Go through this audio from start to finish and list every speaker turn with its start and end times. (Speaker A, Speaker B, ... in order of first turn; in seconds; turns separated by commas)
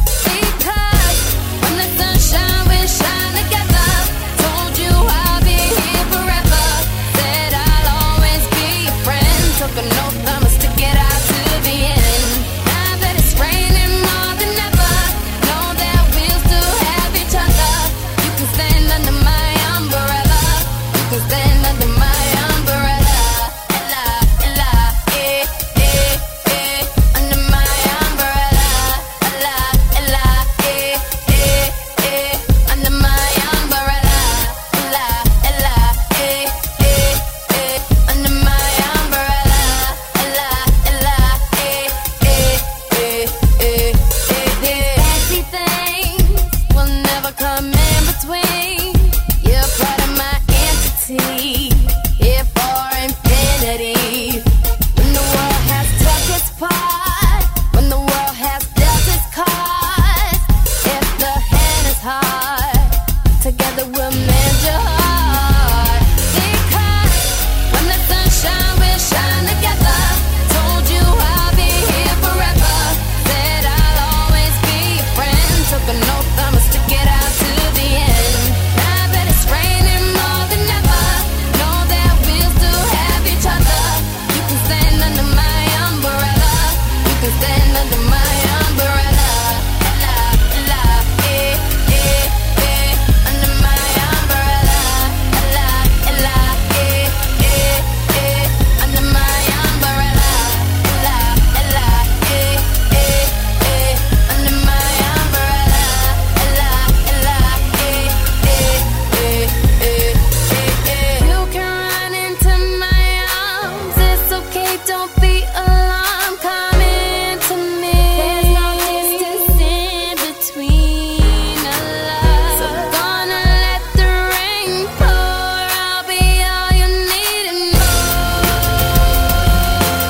Speaker A: 0.2-129.6